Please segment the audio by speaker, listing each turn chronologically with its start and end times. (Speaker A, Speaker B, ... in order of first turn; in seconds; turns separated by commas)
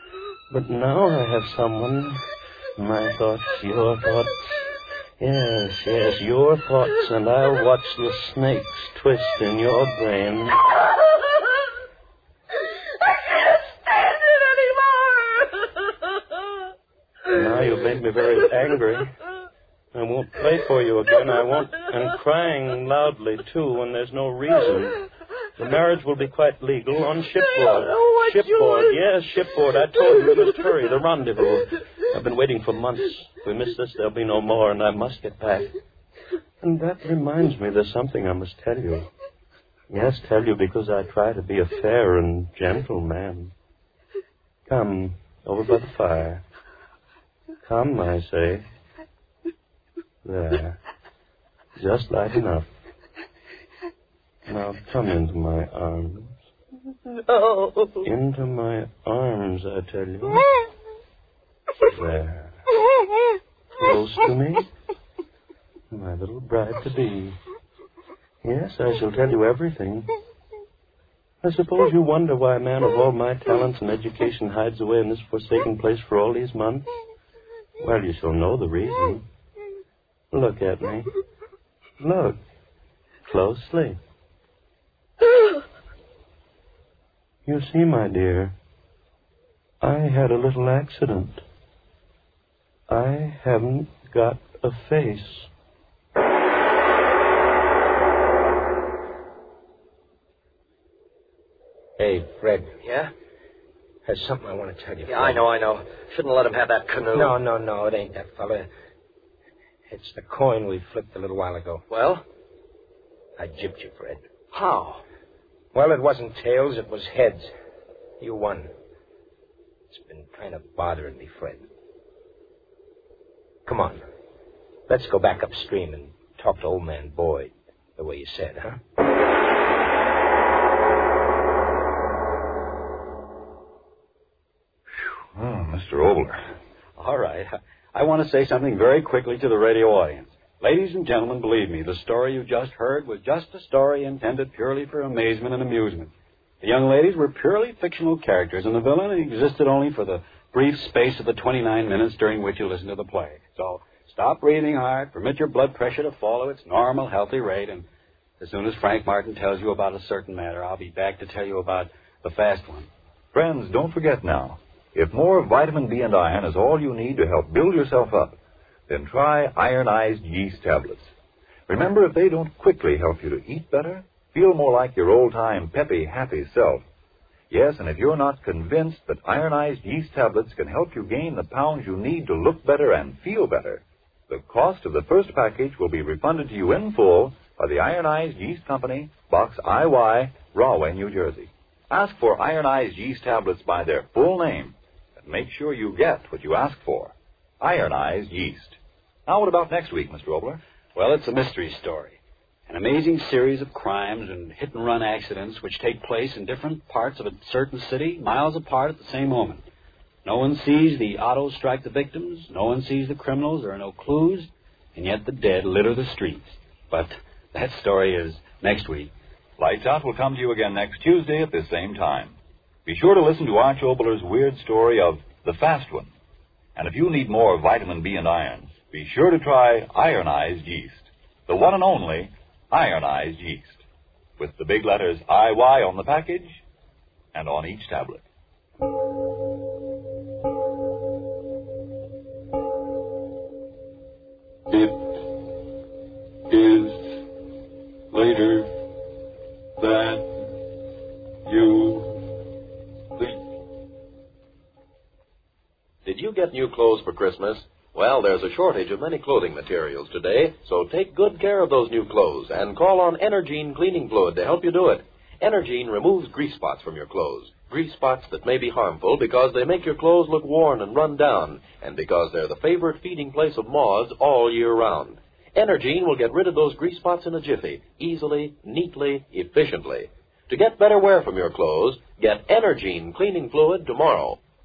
Speaker A: 0.5-10.7, Speaker B: 13.3-15.5, Speaker A: 17.3-19.1, Speaker A: 19.9-25.1, Speaker A: 25.6-35.7, Speaker B: 27.8-28.7, Speaker A: 36.6-39.1, Speaker A: 39.9-43.5, Speaker A: 44.7-46.4, Speaker A: 47.6-48.7, Speaker A: 50.2-50.8, Speaker A: 51.8-52.7, Speaker A: 54.5-56.4, Speaker B: 57.1-58.1, Speaker A: 58.0-60.5, Speaker A: 61.8-62.6, Speaker A: 63.8-64.7, Speaker A: 65.9-67.4, Speaker A: 68.4-70.1, Speaker A: 71.4-76.9, Speaker A: 77.8-79.2, Speaker A: 80.3-81.1, Speaker A: 82.0-82.4, Speaker A: 83.2-84.0, Speaker A: 87.5-88.6, Speaker A: 89.8-91.4, Speaker A: 92.9-95.5, Speaker C: 102.0-102.7, Speaker D: 102.8-103.1, Speaker C: 104.1-105.5, Speaker D: 105.1-107.4, Speaker C: 107.1-108.7, Speaker C: 109.9-111.8, Speaker D: 111.9-112.2, Speaker C: 113.4-114.2, Speaker D: 114.5-115.0, Speaker C: 115.7-117.5, Speaker C: 118.2-118.7, Speaker C: 119.9-121.7, Speaker C: 123.7-124.0, Speaker C: 124.9-128.8, Speaker E: 135.3-136.4, Speaker F: 137.0-157.9, Speaker F: 158.4-162.9, Speaker E: 163.3-168.4, Speaker E: 168.9-171.1, Speaker E: 171.7-176.8, Speaker E: 177.5-200.6, Speaker F: 200.9-209.7, Speaker F: 210.2-219.1, Speaker E: 219.6-226.1, Speaker E: 226.8-233.8, Speaker E: 234.4-236.6, Speaker E: 237.3-238.2, Speaker G: 244.7-245.4, Speaker G: 246.5-247.3, Speaker G: 248.1-248.8, Speaker G: 249.8-250.6, Speaker G: 251.4-252.4, Speaker G: 253.2-253.4, Speaker H: 256.1-284.4